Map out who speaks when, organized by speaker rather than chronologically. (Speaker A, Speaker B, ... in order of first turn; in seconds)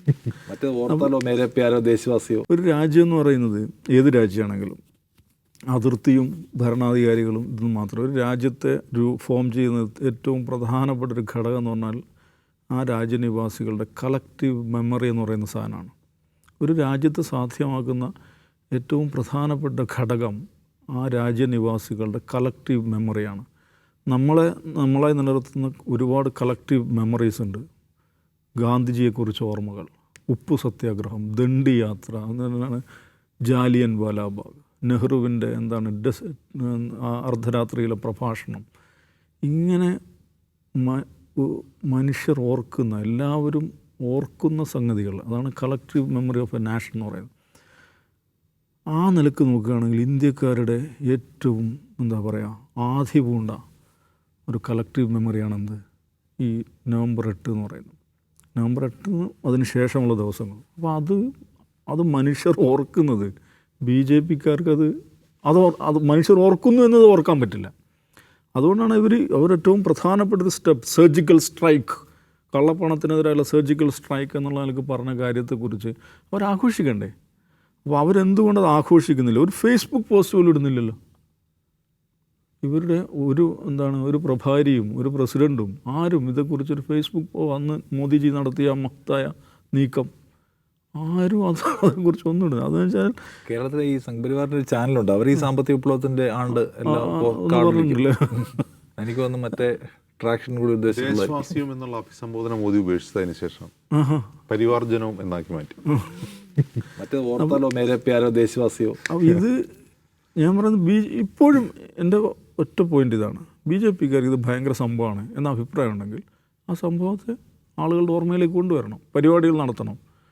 Speaker A: 0.5-2.5, 93.5-98.0, 99.0-101.4, 107.0-109.0
Speaker B: 2.5-4.8, 5.7-12.0, 12.7-15.9, 16.6-18.1, 18.7-20.4, 20.9-23.4, 24.1-27.6, 28.6-32.8, 33.5-38.6, 39.5-40.0, 40.8-47.3, 48.9-53.6, 54.5-55.8, 56.4-57.9, 58.5-61.2, 61.9-63.3, 63.9-64.9, 65.5-67.7, 68.6-72.0, 72.5-77.1, 77.8-81.0, 82.6-90.1, 91.0-93.2, 96.5-98.6, 103.9-104.3, 105.9-106.3, 109.1-109.6, 110.4-120.0
Speaker C: 100.9-103.7, 104.5-105.8